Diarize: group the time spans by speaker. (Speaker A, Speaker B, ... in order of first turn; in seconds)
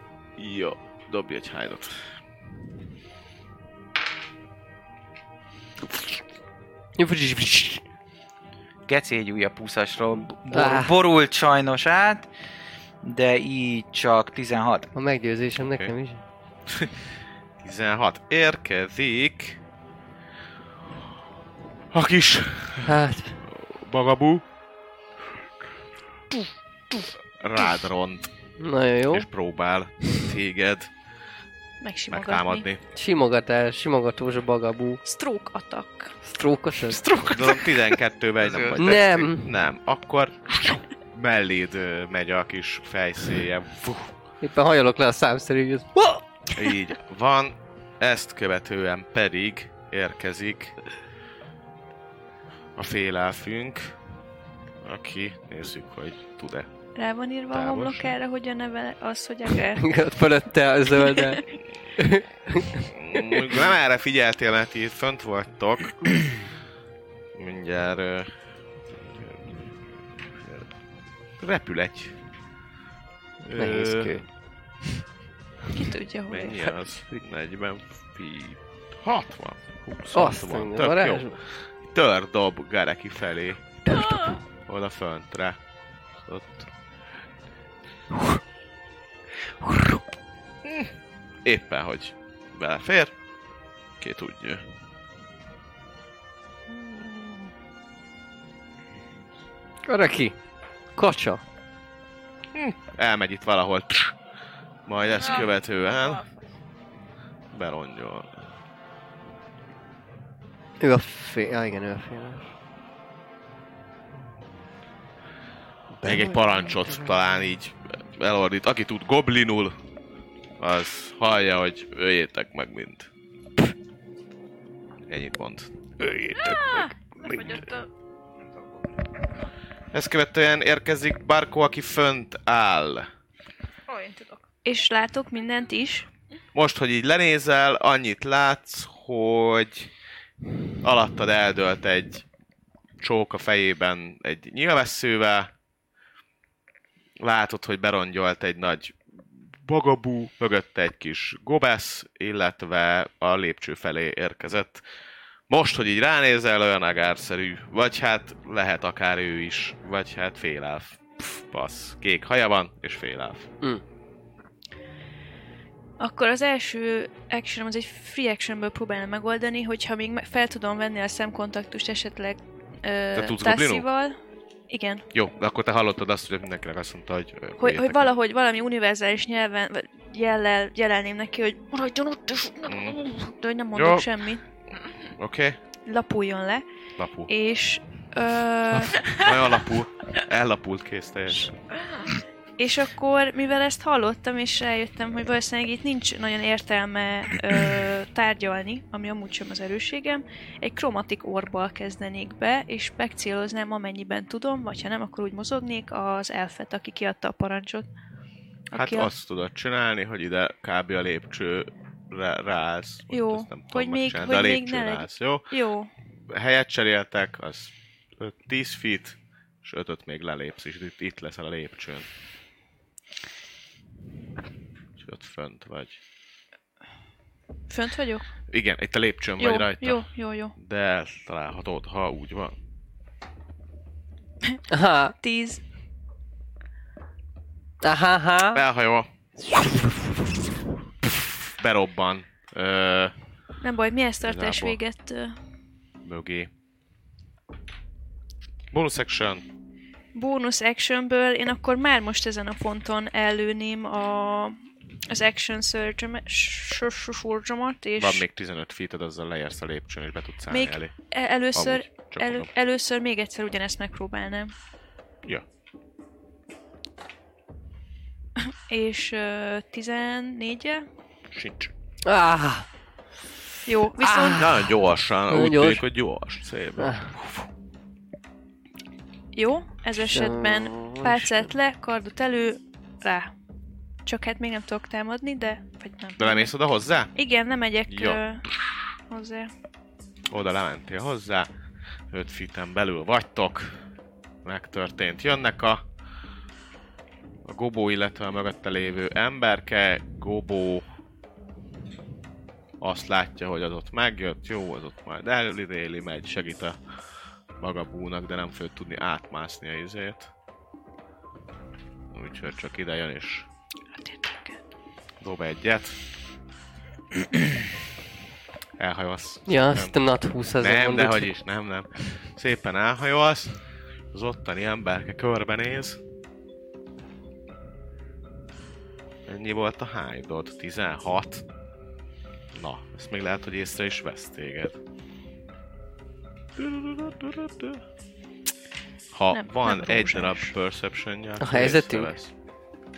Speaker A: 0.4-2.0, 15.6-15.9, 17.6-19.6, 21.9-24.4, 27.0-28.3, 29.1-30.9, 32.1-32.8, 37.0-44.1, 46.5-50.8, 52.8-54.0, 54.8-56.7, 57.5-58.1, 62.9-66.4, 67.3-69.8, 70.3-70.7, 71.4-72.2, 73.4-74.2, 76.3-83.8, 84.7-85.6, 86.2-86.7, 90.6-90.9, 91.4-93.1, 94.0-94.6, 96.7-97.5, 102.5-104.2, 104.8-106.2, 107.5-108.5, 116.0-119.8, 120.6-123.1, 125.1-127.6, 129.9-133.1, 136.5-139.9, 140.8-142.2, 143.0-145.5, 147.2-149.0, 149.6-154.8, 155.5-163.5, 173.1-173.8, 175.1-178.1, 182.7-183.0, 183.7-184.1, 185.1-185.6, 187.0-187.3, 188.7-191.5, 208.7-215.5, 216.3-222.1, 225.0-226.0, 228.5-232.5, 238.5-239.1, 241.5-243.1, 244.2-244.8, 246.0-246.5, 248.7-249.4, 258.0-260.9, 261.5-262.5, 271.3-271.7, 274.4-277.4, 286.2-287.1, 287.9-288.8, 290.3-291.5, 292.1-293.7, 294.4-295.8, 297.4-300.9, 302.8-306.8, 307.6-310.3, 312.1-313.5, 315.2-316.0, 318.8-319.9, 320.6-323.5, 324.1-326.0, 329.3-331.4, 332.5-334.8, 336.6-337.8, 339.1-342.3
Speaker B: 7.0-7.8, 10.5-10.9, 14.9-16.2, 22.8-23.4, 28.6-29.2, 32.9-35.0, 36.2-37.0, 38.8-39.5, 44.4-46.2, 59.8-61.4, 62.0-63.4, 73.5-74.3, 80.1-81.4, 83.9-84.1, 89.6-90.0, 99.8-100.4, 100.9-101.4, 110.8-112.5, 116.0-117.0, 126.1-126.5, 234.7-235.2, 237.8-238.6, 239.5-240.2, 272.0-272.6, 274.0-274.7, 275.3-275.8, 276.8-277.1, 280.0-281.5, 319.5-321.3, 341.4-342.1
Speaker C: 8.9-12.3, 13.0-14.9, 38.4-39.0
Speaker D: 31.8-32.6, 35.0-36.1, 56.9-60.0, 61.0-61.4, 75.7-76.7, 134.6-136.1, 166.0-174.2, 174.7-175.1, 177.6-184.4, 185.8-186.6, 187.3-189.2, 192.6-207.8, 208.7-209.1, 213.1-215.9, 227.7-228.3, 229.4-230.5, 235.2-235.6, 243.6-245.4, 250.1-258.2, 260.5-264.5, 268.7-270.9, 273.6-274.5, 279.3-283.3, 284.0-286.5, 287.1-288.4, 289.1-289.5, 313.9-314.6, 339.3-340.5
Speaker E: 83.9-84.4, 105.1-106.5, 126.3-127.9, 133.9-134.4